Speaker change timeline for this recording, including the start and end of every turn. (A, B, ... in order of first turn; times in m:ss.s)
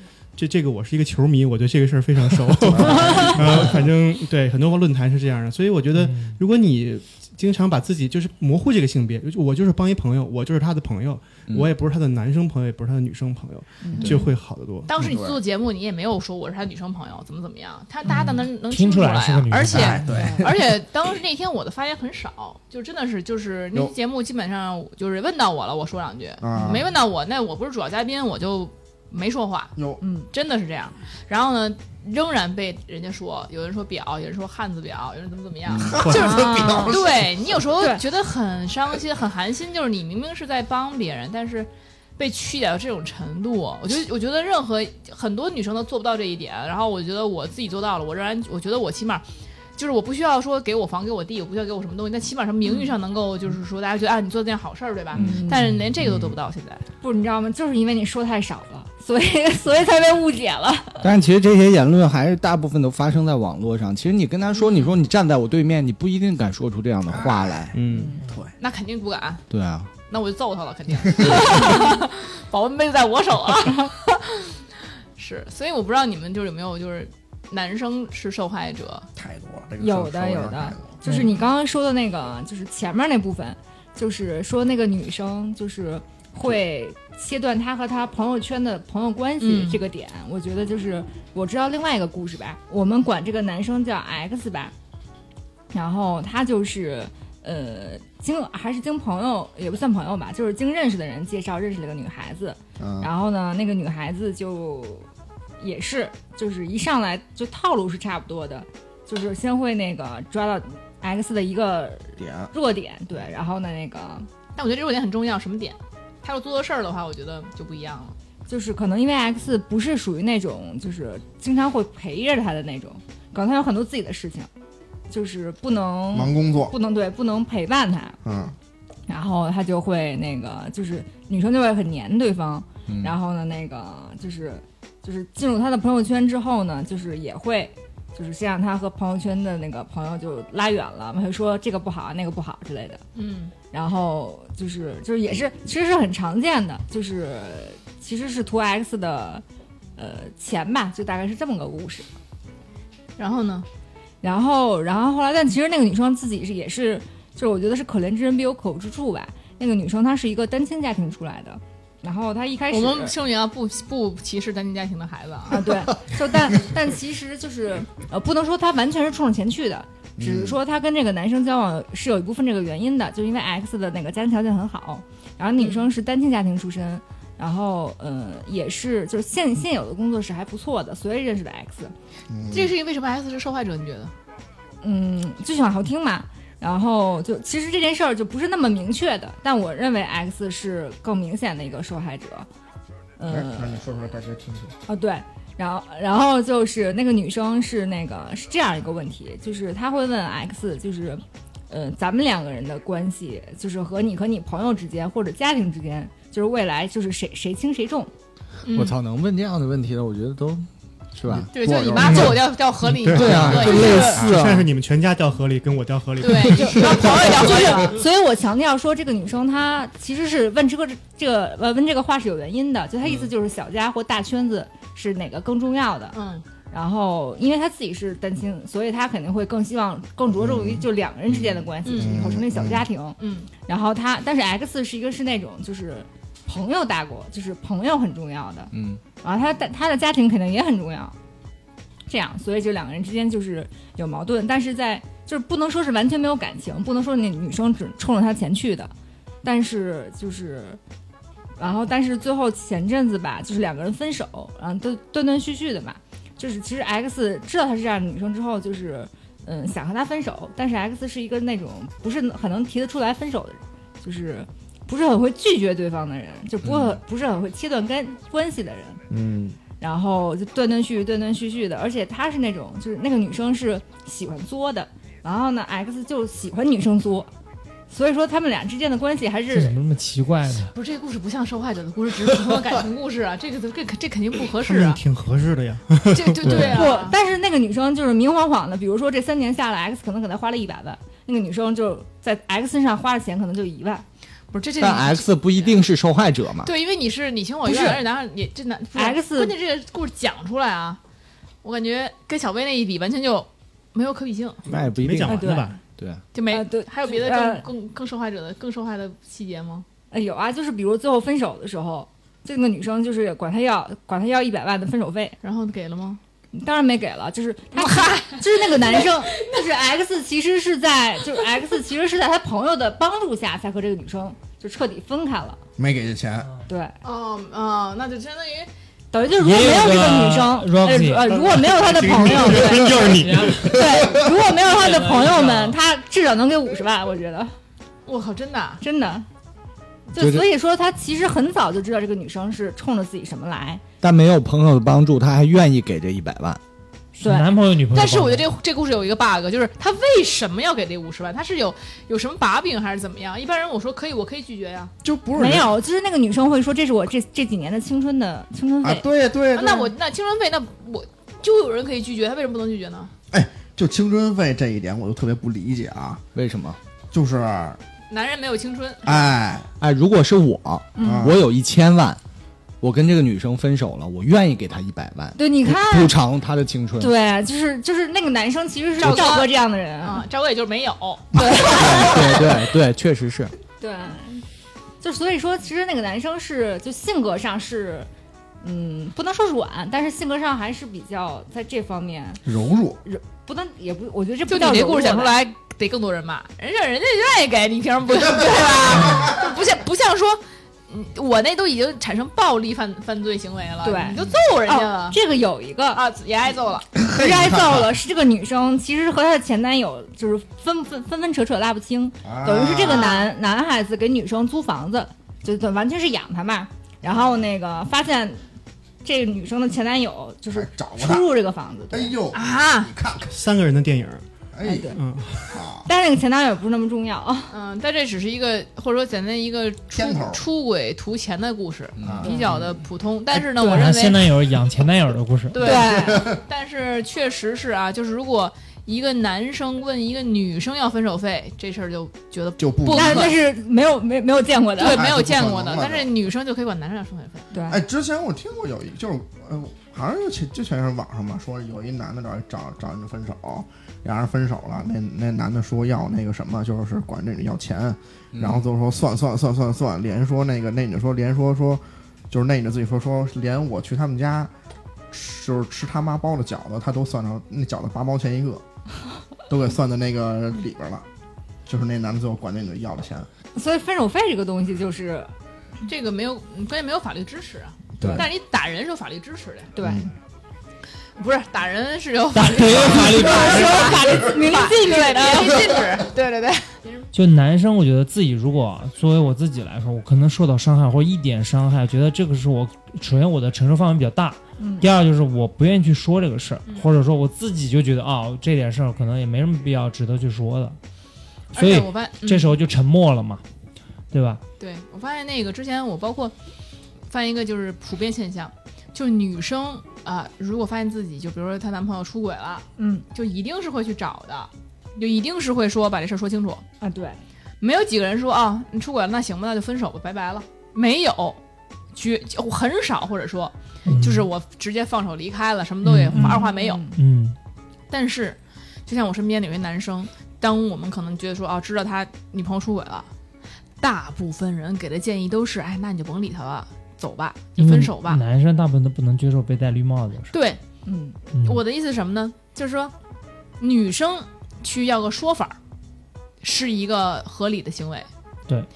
0:00.4-0:14.9 A
0:02.6-0:03.7 B
0:02.9-0:03.3 C
0:06.0-0:06.4 D
0:11.5-0:11.7 E
0:13.8-0:14.2 C
0:14.8-0:29.7 F
0:15.0-0:15.4 B
0:18.7-0:20.0 D
0:19.7-0:20.7 B
0:20.1-0:20.4 C
0:26.4-0:26.9 B
0:30.0-0:30.3 C
0:30.3-0:49.2 F
0:35.7-0:37.5 B
0:36.1-0:37.0 C
0:37.8-0:38.0 C
0:49.8-0:56.8 F
0:55.2-0:55.7 C
0:57.0-1:01.1 C
1:01.0-1:07.7 E
1:07.1-1:07.7 B
1:07.7-1:08.2 A
1:07.9-1:08.2 C
1:08.6-1:09.5 F
1:09.5-1:09.9 E
1:10.1-1:14.6 F
1:11.5-1:11.9 C
1:15.2-1:19.1 F
1:19.2-1:21.0 B
1:19.8-1:34.7 C
1:29.4-1:29.8 F
1:35.7-1:45.1 C
1:42.8-1:43.1 B
1:45.6-1:54.3 C
1:52.2-1:52.5 B
1:54.6-1:58.1 F
1:58.5-2:04.5 C
2:05.1-2:08.2 C
2:06.1-2:06.7 B
2:08.2-2:08.5 B
2:09.1-2:23.0 C
2:12.9-2:13.1 E
2:23.1-2:23.5 F
2:23.7-2:29.4 C
2:30.0-2:32.1 C
2:33.2-2:33.6 F
2:34.2-2:43.1 C
2:42.7-2:45.7 F
2:45.5-3:01.9 C
2:50.2-2:50.6 B
2:55.6-2:55.8 F
3:02.3-3:02.7 B
3:02.5-3:04.1 F
3:04.8-3:12.5 C
3:13.2-3:13.8 C
3:13.3-3:14.7 B
3:14.9-3:28.1 C
3:28.6-3:29.0 F
3:28.7-3:31.5 E
3:31.3-3:32.4 B
3:31.5-3:34.2 F
3:32.9-3:37.3 A
3:33.1-3:34.7 E
3:36.2-3:38.0 F
3:36.6-3:46.2 C
3:46.1-3:46.4 F
3:46.7-3:58.7 C
3:50.3-3:50.8 B
3:51.8-3:52.2 F
3:51.9-3:52.8 B
3:53.2-3:53.5 F
3:58.7-3:59.0 E
3:59.2-4:01.2 C
4:02.1-4:08.9 C
4:09.4-4:10.8 C
4:11.6-4:29.0 C
4:26.6-4:26.9 E
4:29.1-4:29.6 B
4:29.8-4:37.3 C
4:37.9-4:39.8 C
4:39.5-4:40.7 D
4:40.7-4:45.0 F
4:44.6-4:46.8 A
4:46.1-4:47.2 F
4:46.5-4:54.0 C
4:54.5-4:55.8 F
4:54.8-4:56.7 E
4:56.6-5:01.0 F
4:57.6-4:58.0 C
4:59.0-4:59.5 C
5:01.6-5:04.6 F
5:04.7-5:06.2 E
5:04.7-5:05.8 A
5:05.2-5:05.7 C
5:06.3-5:09.8 F
5:06.5-5:07.7 C
5:10.1-5:15.4 C
5:15.4-5:16.2 F
5:16.5-5:25.6 C
5:17.7-5:19.7 F
5:25.8-5:26.5 B
5:26.7-5:26.9 C
5:27.0-5:28.7 F
5:29.1-5:33.0 C
5:29.4-5:31.4 D
5:31.3-5:33.7 A
5:33.2-5:33.9 D
5:33.6-5:37.5 C
5:34.5-5:35.8 D
5:38.0-5:38.8 F
5:38.8-5:39.3 C
5:40.1-5:43.8 C
5:40.2-5:40.4 E
5:44.0-5:46.6 E
5:47.2-5:47.5 C
5:47.2-5:48.4 D
5:47.9-5:54.9 F
5:55.0-5:55.7 B
5:55.4-5:59.0 C
5:58.8-5:59.9 B
5:59.5-6:03.1 F
6:03.3-6:06.2 B
6:06.3-6:06.8 E
6:07.1-6:07.8 B
6:08.1-6:09.3 F
6:09.0-6:09.7 B
6:09.8-6:12.2 E
6:11.0-6:11.3 C
6:11.0-6:11.4 B
6:12.8-6:17.1 E
6:15.4-6:16.1 C
6:17.0-6:20.2 C
6:19.0-6:22.1 F
6:21.3-6:22.4 C
6:21.7-6:23.5 E
6:23.8-6:24.4 C
6:25.0-6:28.1 C
6:28.6-6:32.4 C
6:32.4-6:33.0 B
6:33.0-6:35.3 C
6:34.5-6:45.2 F
6:43.8-6:46.0 C
6:45.9-6:46.9 F
6:46.9-6:48.0 B
6:47.1-6:58.4 C
6:52.2-6:53.1 B
6:52.9-6:53.3 F
6:59.0-7:02.1 C
7:00.5-7:01.3 B
7:01.9-7:03.3 B
7:02.3-7:02.9 F
7:03.3-7:04.2 A
7:04.5-7:04.9 B
7:04.6-7:05.0 C
7:04.9-7:05.5 A
7:05.5-7:05.9 B
7:05.8-7:07.5 C
7:07.5-7:14.4 F
7:09.9-7:10.4 B
7:12.0-7:12.2 E
7:12.0-7:12.6 B
7:12.2-7:12.5 C
7:13.6-7:13.9 C
7:13.6-7:15.8 D
7:15.5-7:23.4 F
7:15.6-7:16.3 C
7:15.9-7:16.4 B
7:22.6-7:23.3 B
7:22.9-7:25.0 C
7:24.8-7:27.5 F
7:24.8-7:26.1 B
7:27.5-7:27.8 C
7:27.7-7:44.5 B
7:38.3-7:38.6 E
7:45.1-7:48.6 B
7:49.5-7:51.0 B
7:51.6-7:53.3 B
7:53.6-7:55.3 C
7:55.9-7:59.7 F
7:58.0-7:58.3 B
7:59.7-8:00.0 C
7:59.8-8:00.1 B
8:01.2-8:07.1 F
8:02.3-8:04.1 D
8:02.9-8:05.6 C
8:07.1-8:20.8 D
8:14.6-8:14.9 C
8:21.5-8:22.6 F
8:21.5-8:23.4 D
8:24.1-8:24.4 D
8:24.6-8:26.3 F
8:27.1-8:36.6 F
8:32.8-8:33.0 C
8:36.8-8:37.2 C
8:37.6-8:41.4 F
8:41.9-8:46.8 F
8:43.8-8:44.3 D
8:45.8-8:47.4 D
8:46.1-8:47.0 C
8:47.9-8:53.1 F
8:53.8-8:58.2 F
8:57.6-9:00.3 D
9:00.3-9:00.6 F
9:00.8-9:01.2 C
9:01.3-9:01.6 D
9:01.4-9:02.9 F
9:03.6-9:05.6 F
9:06.4-9:08.1 F